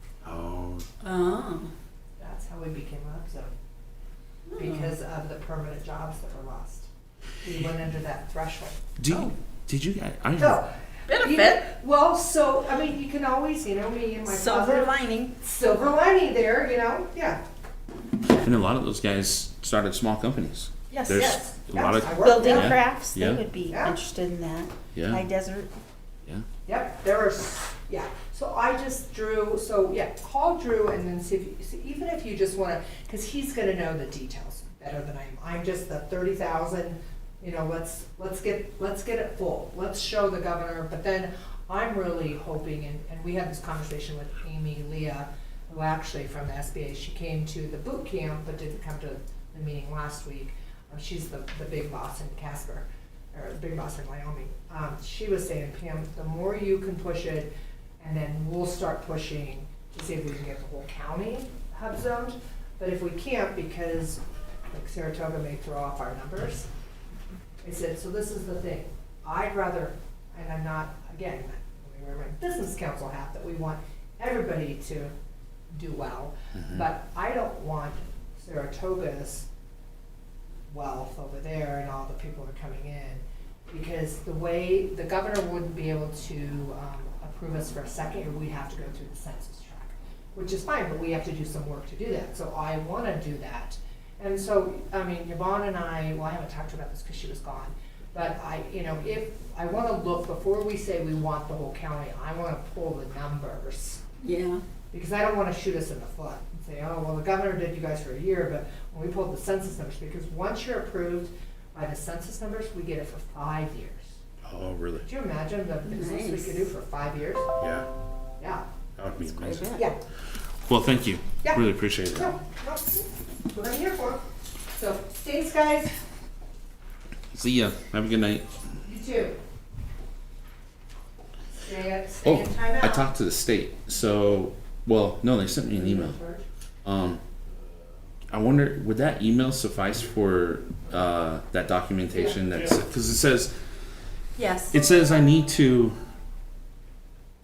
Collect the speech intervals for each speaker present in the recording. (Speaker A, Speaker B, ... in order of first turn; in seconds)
Speaker A: 0.2-0.9, 9.0-10.6, 18.3-23.4, 24.9-25.2, 76.5-76.8, 114.4-115.1, 117.6-117.9, 119.0-119.7, 120.7-122.3, 127.3-128.5, 132.2-136.2, 136.8-137.2, 138.3-143.5, 144.7-146.0
Speaker B: 1.0-1.7, 4.5-5.0, 9.1-9.3, 11.1-11.7, 14.3-15.4, 20.9-21.2, 22.2-25.7, 104.2-104.6, 115.8-116.7, 119.2-119.9, 144.4-144.8
Speaker C: 2.2-3.5, 4.5-6.9, 7.4-8.8, 10.4-17.4, 21.1-22.8, 23.7-24.0, 26.7-66.7, 67.6-75.1, 75.7-79.5, 80.7-104.0, 104.9-114.2, 115.0-117.5, 118.4-118.7, 121.4-126.0, 128.8-129.4, 131.6-133.1, 135.7-136.4, 142.1-142.4